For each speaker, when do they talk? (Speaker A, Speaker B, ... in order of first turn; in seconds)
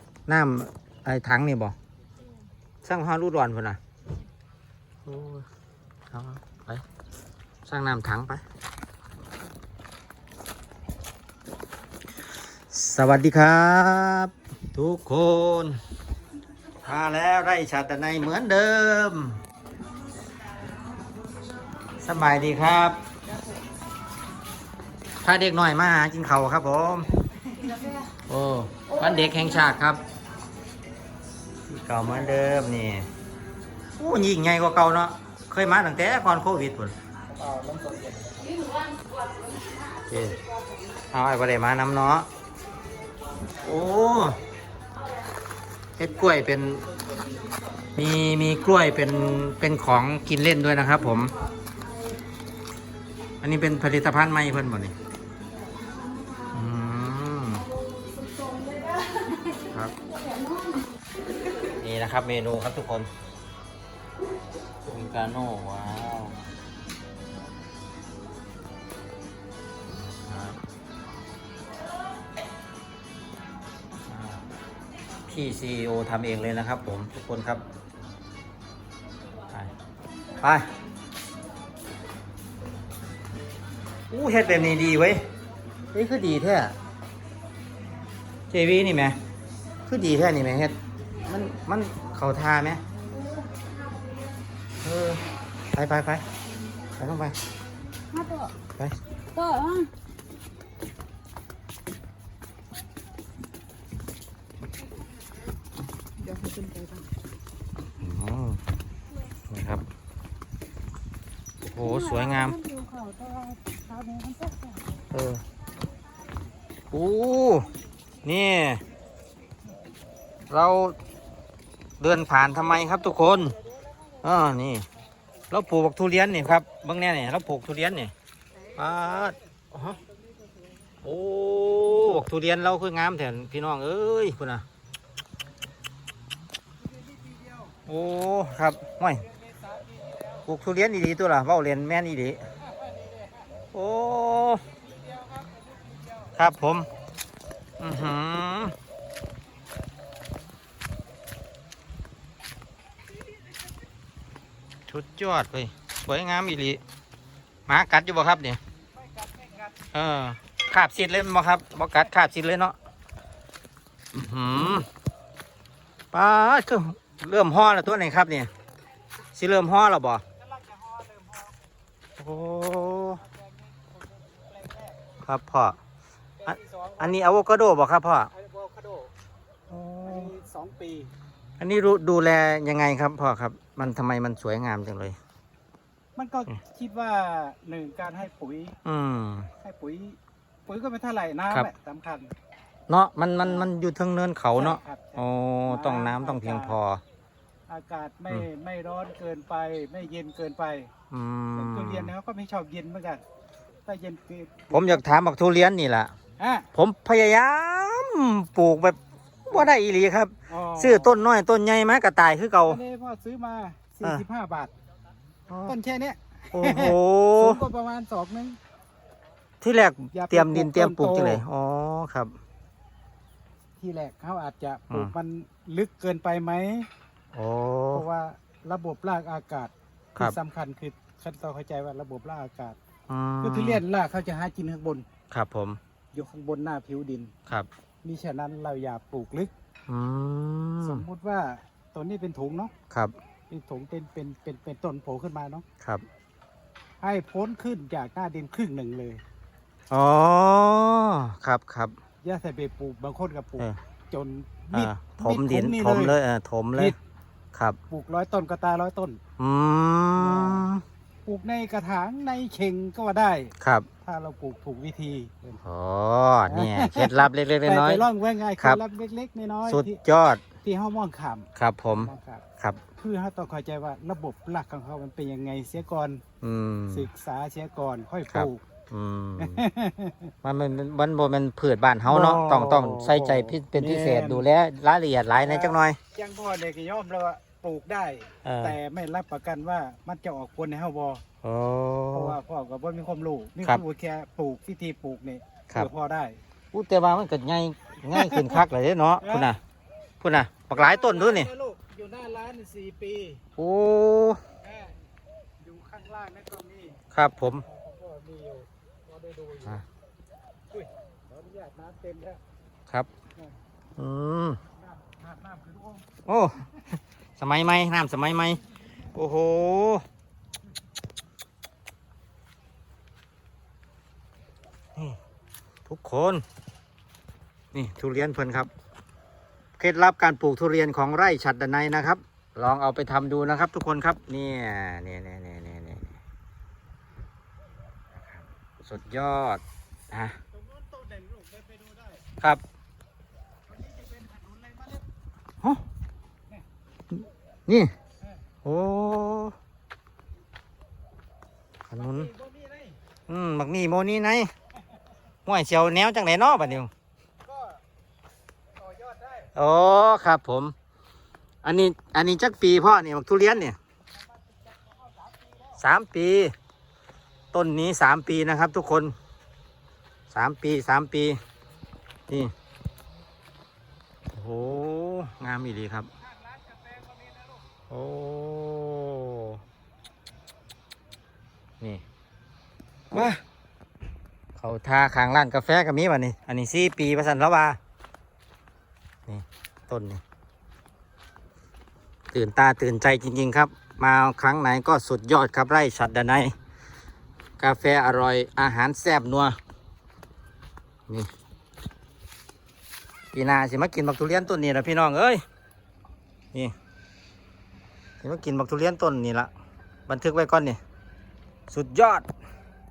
Speaker A: 0.3-1.8, 2.8-3.8, 5.0-5.5, 6.1-6.8, 7.7-8.4, 12.7-15.8, 16.8-19.4, 22.0-23.0, 25.2-27.1, 28.3-30.0, 31.7-33.1, 34.0-36.9, 40.1-40.4, 41.1-42.3, 43.6-44.4, 46.0-46.8, 48.0-51.3, 53.4-54.9, 56.5-57.7, 61.7-63.1, 64.8-66.5, 70.2-70.6, 74.1-74.4, 75.3-77.6, 80.4-80.7, 84.1-85.2, 85.9-86.7, 88.5-89.2, 89.9-92.8, 94.8-95.2, 95.7-96.2, 97.0-97.4, 108.0-108.6, 109.5-109.8, 111.7-112.6, 115.1-115.4, 116.9-117.7, 118.2-118.8, 120.5-121.0, 122.0-123.5, 124.2-124.9, 125.5-128.1, 128.8-130.0, 131.0-134.6, 137.8-139.2, 140.4-142.4, 143.7-144.6, 146.3-146.9, 147.8-148.7, 154.9-156.8, 157.7-158.6, 159.9-162.7, 164.1-164.9, 166.1-168.5, 169.3-170.2, 172.2-173.2, 175.2-175.8, 176.5-178.3, 179.7-180.3, 181.6-185.2, 188.8-189.5, 192.9-197.0, 201.1-202.1, 204.7-206.1, 206.7-212.8, 215.5-215.7, 216.5-217.6, 219.6-222.3, 227.3-228.0, 233.1-233.8, 235.3-235.8, 239.9-241.0, 242.9-243.2, 249.9-251.9, 254.7-256.9, 259.4-260.8, 263.6-263.9, 265.6-268.0, 269.7-270.4, 271.6-272.8, 276.4-277.1, 278.3-279.6, 280.4-286.0, 288.4-288.8, 291.4-292.4, 296.7-299.6, 300.2-301.5, 303.6-304.4, 307.1-307.6, 314.0-314.6, 316.2-316.7, 317.4-320.0, 325.9-326.4, 327.7-328.7, 329.8-336.2, 338.2-340.4, 347.7-347.9, 348.6-349.5, 351.9-352.3, 353.3-354.5, 355.4-356.9, 359.5-360.7, 361.6-363.8, 365.8-366.5, 367.5-369.1, 370.3-371.4, 374.3-376.1, 377.9-379.6, 383.1-383.4, 384.6-387.8, 389.3-390.2, 392.3-396.5, 397.6-399.6, 403.3-405.4, 408.2-409.5, 410.1-410.8, 411.7-412.2
Speaker B: 27.7-28.0, 56.1-56.5, 57.9-60.8, 98.1-98.5, 99.3-99.9, 106.2-107.1, 112.0-114.6
Speaker C: 37.4-38.6, 128.7-129.4, 136.8-137.7, 139.5-140.4, 142.6-143.5, 144.9-146.3, 159.0-159.8, 170.4-171.5, 173.2-175.0, 176.4-177.2, 178.3-179.1, 180.0-181.1, 186.2-188.8, 189.6-192.3, 194.5-196.8, 197.7-200.9, 201.5-203.2, 203.8-205.0, 206.4-206.7, 210.5-211.2, 212.6-214.7, 215.7-218.6, 220.1-221.4, 223.8-226.9, 227.9-232.8, 233.4-235.1, 236.1-237.3, 238.0-239.5, 240.8-242.7, 243.5-245.6, 247.0-249.2, 252.2-256.2, 257.9-259.2, 260.2-260.7, 261.2-265.6, 266.5-270.0, 270.6-272.4, 272.9-276.2, 276.9-278.6, 279.4-280.3, 282.1-284.4, 285.4-291.2, 292.1-296.4, 298.1-298.6, 299.2-299.5, 300.7-303.4, 304.6-305.0, 305.6-307.0, 307.6-309.8, 310.7-312.4, 314.8-316.1, 340.6-342.2, 343.7-345.0, 352.0-353.0, 357.4-357.8, 358.8-359.5, 376.7-377.1